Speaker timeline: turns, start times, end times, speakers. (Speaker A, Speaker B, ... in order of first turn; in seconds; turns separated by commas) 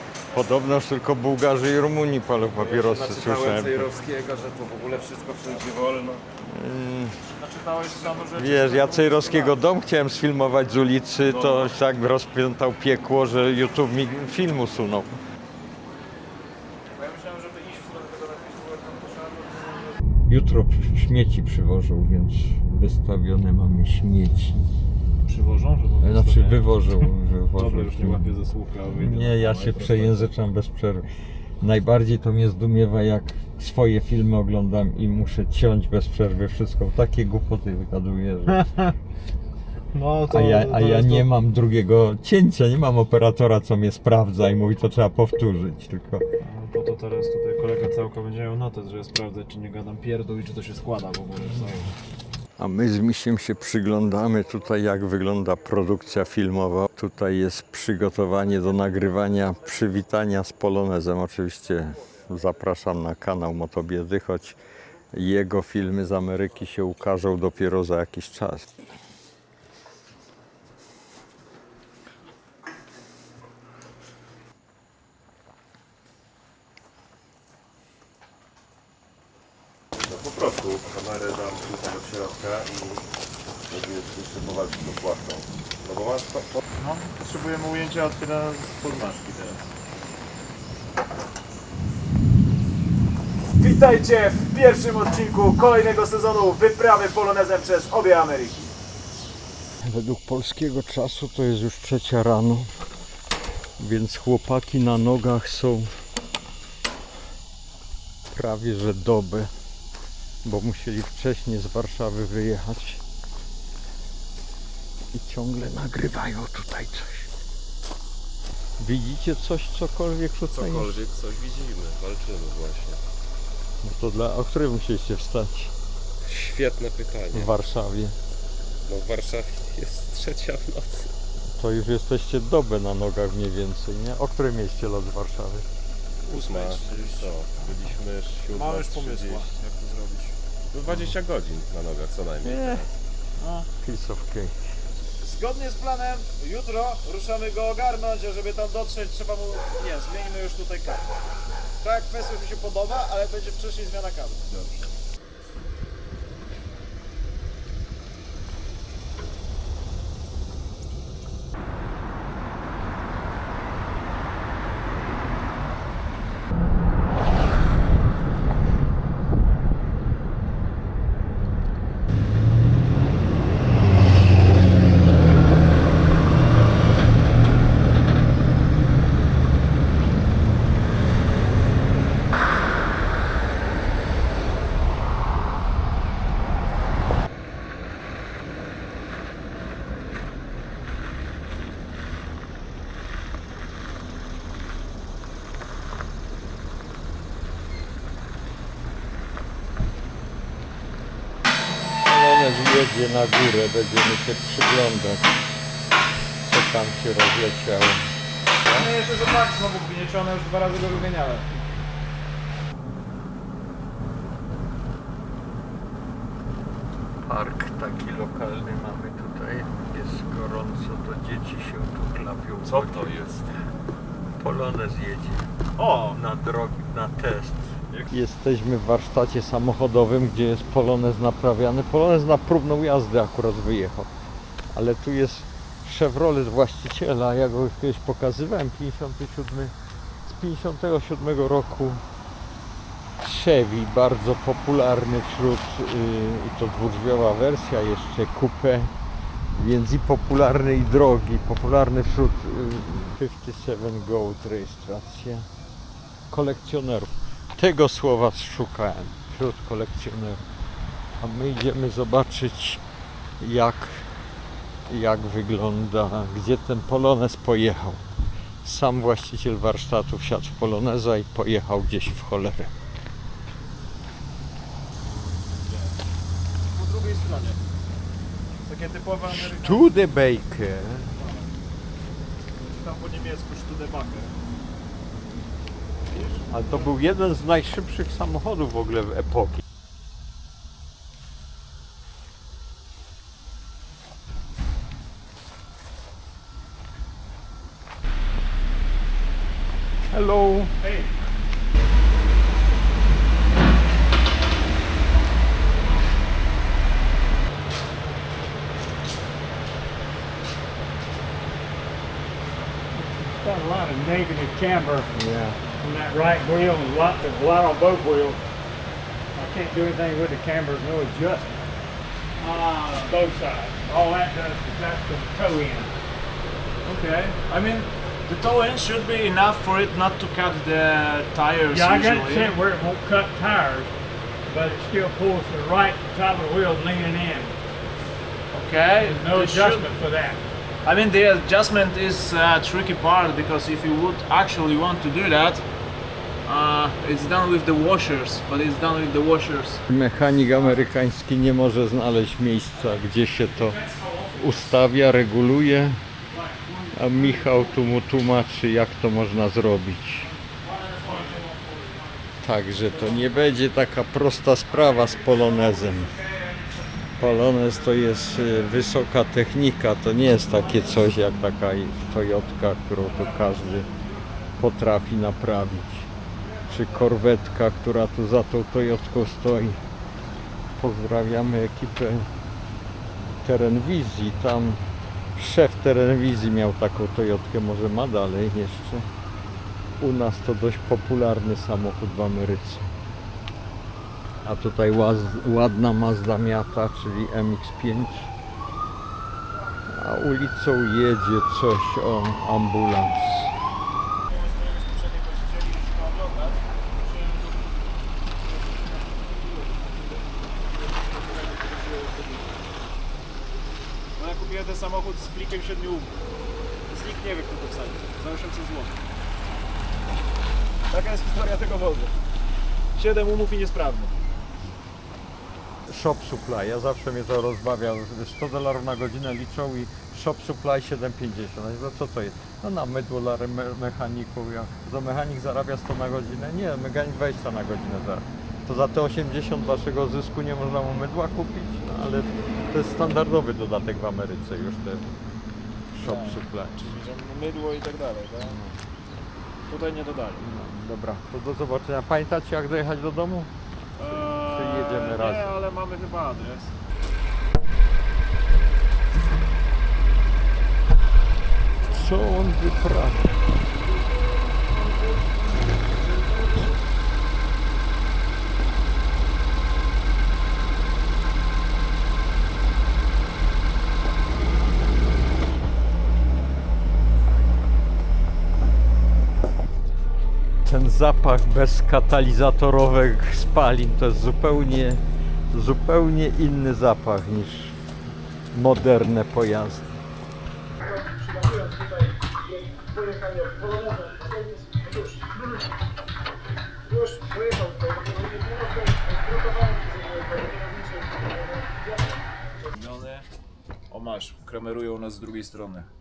Speaker A: 0.3-3.9, Speaker B: 2.6-6.2, Speaker A: 6.4-7.2, Speaker B: 7.4-9.6, Speaker A: 8.3-15.2, Speaker B: 11.2-11.7, Speaker B: 17.0-20.0, Speaker A: 20.3-24.6, Speaker B: 25.2-30.3, Speaker A: 26.0-28.3, Speaker A: 28.9-31.1, Speaker A: 31.6-38.7, Speaker B: 38.5-38.9, Speaker B: 39.9-41.3, Speaker A: 40.3-46.2, Speaker B: 46.4-51.9, Speaker A: 52.6-64.6, Speaker A: 65.1-68.7, Speaker C: 80.0-83.0, Speaker C: 83.7-86.6, Speaker B: 86.8-89.7, Speaker B: 93.6-98.7, Speaker A: 99.8-102.7, Speaker A: 103.8-105.9, Speaker A: 108.3-109.5, Speaker A: 110.4-113.0, Speaker A: 115.1-117.3, Speaker A: 118.8-121.0, Speaker C: 120.5-123.0, Speaker A: 123.8-125.7, Speaker C: 126.2-127.5, Speaker A: 127.3-128.2, Speaker C: 128.9-131.1, Speaker A: 131.6-135.7, Speaker C: 136.2-139.5, Speaker B: 136.3-137.3, Speaker B: 138.5-140.3, Speaker C: 140.7-142.9, Speaker A: 142.4-142.9, Speaker B: 143.4-143.7, Speaker A: 143.8-144.5, Speaker B: 145.2-151.1, Speaker B: 151.8-154.8, Speaker A: 202.0-205.3, Speaker A: 206.4-208.1, Speaker A: 208.6-208.9, Speaker B: 208.8-211.5, Speaker A: 217.2-223.1, Speaker C: 222.7-223.6, Speaker A: 224.4-225.5, Speaker B: 225.8-226.2, Speaker A: 226.0-234.1, Speaker A: 234.7-239.7, Speaker A: 240.2-242.0, Speaker A: 243.2-248.9, Speaker A: 249.5-255.5, Speaker A: 256.3-260.4, Speaker A: 261.2-262.8, Speaker A: 263.4-264.1, Speaker A: 264.9-268.0, Speaker A: 268.6-272.7, Speaker B: 275.7-275.9, Speaker B: 276.7-277.6, Speaker B: 278.6-280.0, Speaker A: 279.3-281.1, Speaker B: 281.2-281.5, Speaker B: 282.6-284.3, Speaker B: 286.1-286.5, Speaker A: 286.5-289.6, Speaker A: 300.1-300.7, Speaker B: 300.8-301.1, Speaker D: 312.9-315.1, Speaker A: 315.1-315.6, Speaker D: 315.8-318.4, Speaker D: 319.4-321.5, Speaker D: 322.4-325.9, Speaker B: 322.5-323.1, Speaker B: 326.8-332.6, Speaker D: 331.7-333.9, Speaker D: 334.5-337.5, Speaker B: 338.5-339.9, Speaker D: 339.0-340.4, Speaker B: 340.8-345.6, Speaker B: 346.4-349.8, Speaker A: 349.9-356.0, Speaker A: 356.9-360.3, Speaker B: 360.6-361.9, Speaker D: 360.7-362.1, Speaker A: 362.4-366.2, Speaker B: 365.7-366.7, Speaker A: 367.2-373.9, Speaker B: 373.5-374.0, Speaker A: 374.6-376.1, Speaker B: 376.4-376.8, Speaker A: 376.6-379.8, Speaker A: 380.8-382.3, Speaker A: 383.4-384.9, Speaker A: 385.4-389.1, Speaker A: 390.0-392.9, Speaker A: 394.4-398.3, Speaker A: 399.9-403.5, Speaker B: 404.3-407.7, Speaker B: 408.4-410.0, Speaker B: 410.8-412.5, Speaker B: 414.2-416.1, Speaker B: 416.9-419.0, Speaker B: 420.9-422.1, Speaker B: 422.9-424.2, Speaker A: 425.9-445.1, Speaker A: 445.9-446.9, Speaker B: 446.0-448.6, Speaker A: 448.4-448.8, Speaker B: 449.7-450.4, Speaker A: 450.4-453.5, Speaker B: 454.0-456.7, Speaker A: 454.1-455.6, Speaker A: 461.9-463.4, Speaker A: 480.6-487.8, Speaker A: 488.5-489.8, Speaker B: 490.8-495.4, Speaker B: 496.9-503.3, Speaker B: 503.9-505.9